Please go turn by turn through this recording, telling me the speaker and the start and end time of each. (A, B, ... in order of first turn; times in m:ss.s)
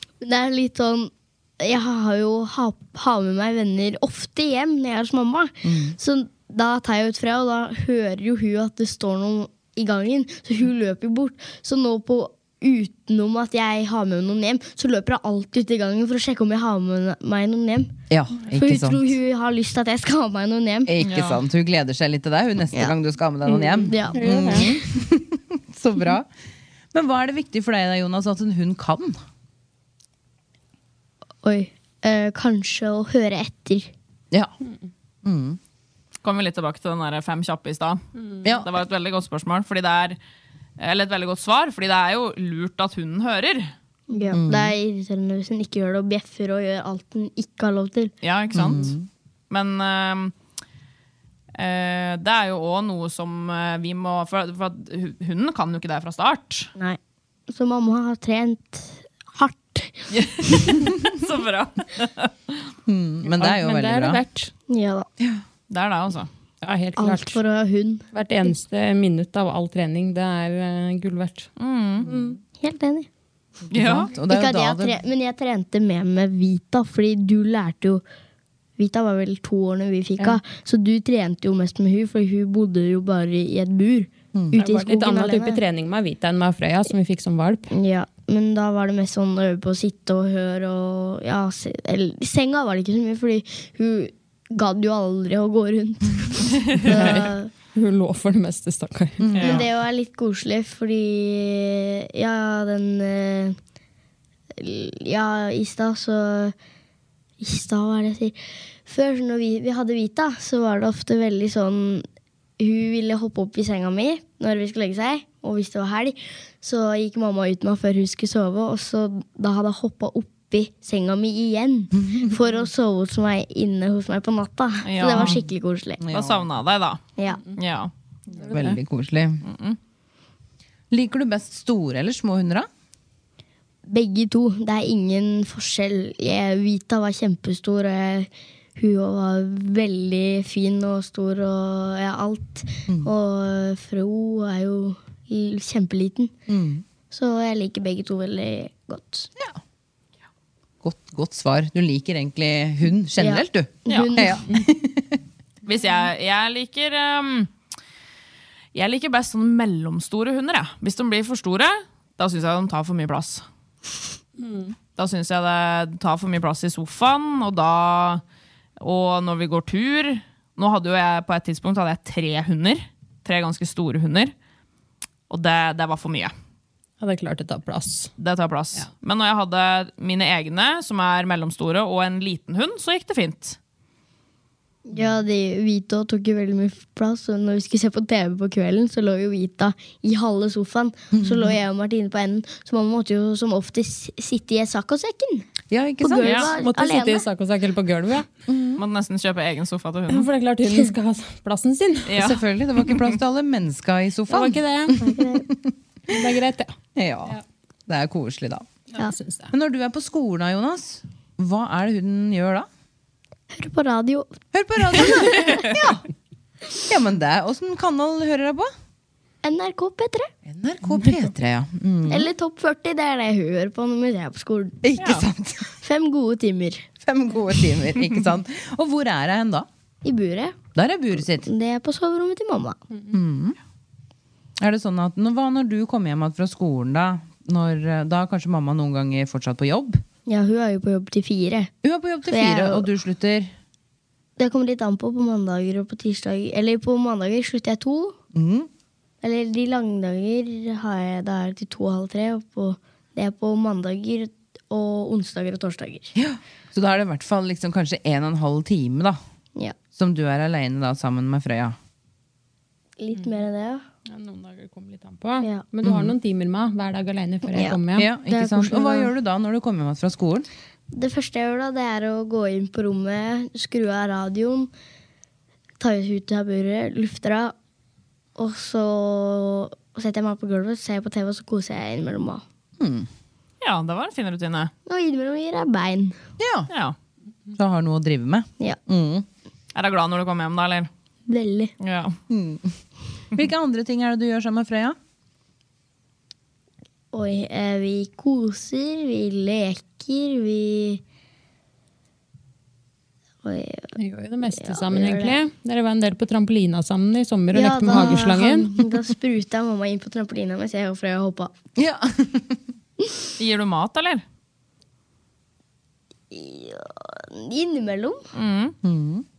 0:00.2-0:18.0 A
0:05.6-0:06.0 B
0:18.1-0:19.2 B
0:18.5-0:20.9 A
0:20.9-0:26.3 B
0:21.0-0:21.4 C
0:23.7-0:24.6 A
0:24.2-0:24.7 D
0:26.9-0:29.2 B
0:31.4-0:33.9 A
0:35.2-0:35.6 B
0:36.2-0:38.0 C
0:38.2-0:38.4 D
0:38.4-0:38.7 B
0:38.6-0:40.2 C
0:40.8-0:43.7 C
0:44.1-0:48.1 A
0:44.3-0:44.8 B
0:48.2-0:48.9 C
0:48.5-0:49.1 B
0:49.5-0:50.3 C
0:51.6-0:56.7 C
0:57.5-1:00.6 A
1:00.1-1:02.6 C
1:02.9-1:04.2 B
1:03.3-1:04.5 D
1:04.7-1:05.1 A
1:05.7-1:06.3 C
1:06.6-1:07.4 D
1:07.0-1:08.1 A
1:08.1-1:11.5 D
1:11.6-1:12.1 C
1:12.1-1:13.1 A
1:13.7-1:14.1 C
1:13.7-1:15.0 B
1:14.3-1:18.0 A
1:18.8-1:25.6 A
1:24.3-1:24.6 B
1:24.5-1:27.7 D
1:27.7-1:37.5 A
1:36.8-1:39.2 D
1:39.2-1:39.7 B
1:39.4-1:39.6 C
1:39.4-1:43.6 A
1:44.6-1:46.6 A
1:47.4-1:52.1 A
1:52.6-2:06.0 A
2:02.0-2:02.3 B
2:04.8-2:05.4 C
2:05.2-2:05.4 B
2:06.0-2:06.5 B
2:06.1-2:07.0 C
2:07.2-2:07.4 A
2:07.6-2:07.9 C
2:08.3-2:09.4 B
2:08.4-2:08.8 D
2:09.4-2:09.8 C
2:10.9-2:12.7 B
2:13.9-2:26.4 A
2:26.5-2:26.8 B
2:27.1-2:29.3 A
2:30.8-2:35.2 B
2:33.2-2:34.4 A
2:33.9-2:34.1 C
2:35.7-2:37.5 C
2:38.7-2:43.4 C
2:44.4-2:44.8 D
2:45.0-2:48.2 C
2:48.8-2:54.3 C
2:55.3-2:56.3 C
2:57.0-2:58.1 D
2:58.2-3:03.6 C
3:04.9-3:15.5 A
3:11.1-3:11.6 B
3:15.7-3:16.4 B
3:16.0-3:17.2 A
3:16.2-3:16.5 C
3:16.2-3:18.3 D
3:18.5-3:18.8 B
3:18.8-3:20.3 C
3:20.1-3:22.1 D
3:22.1-3:22.4 C
3:22.2-3:25.7 B
3:24.3-3:25.0 D
3:25.0-3:25.4 A
3:26.1-3:26.7 D
3:27.0-3:28.7 B
3:28.9-3:29.5 D
3:29.5-3:32.7 B
3:33.5-3:34.4 A
3:34.5-3:36.0 B
3:34.9-3:35.7 A
3:36.9-3:38.7 B
3:39.4-3:40.3 A
3:40.4-3:42.3 B
3:42.1-3:44.8 A
3:44.8-3:45.7 B
3:45.0-3:45.3 C
3:45.8-3:46.9 A
3:47.0-3:49.7 B
3:50.0-3:50.6 A
3:50.8-3:51.5 B
3:51.3-3:52.8 A
3:53.1-3:53.6 B
3:54.6-4:00.0 B
4:00.3-4:01.7 A
4:01.8-4:03.5 B
4:02.3-4:02.9 A
4:04.4-4:08.2 A
4:08.3-4:08.7 B
4:09.2-4:16.1 A
4:16.2-4:19.2 B
4:19.9-4:21.8 B
4:23.0-4:23.8 A
4:24.1-4:28.1 D
4:25.8-4:26.1 B
4:27.5-4:29.1 A
4:28.0-4:30.5 B
4:30.9-4:34.7 A
4:35.8-4:37.6 A
4:38.4-4:42.4 A
4:42.8-4:43.1 B
4:43.6-4:44.7 C
4:44.9-4:46.2 A
4:46.4-4:46.7 B
4:46.7-4:47.0 C
4:47.5-4:49.3 B
4:49.8-4:50.9 C
4:51.3-4:51.7 A
4:51.8-4:52.2 C
4:52.3-4:52.7 B
4:53.3-4:55.0 B
4:57.1-5:01.0 A
5:03.4-5:03.9 A
5:04.0-5:08.8 D
5:04.6-5:05.4 A
5:07.5-5:11.5 A
5:11.8-5:12.6 B
5:13.4-5:14.2 C
5:16.3-5:18.2 A
5:18.4-5:18.8 C
5:18.8-5:19.2 B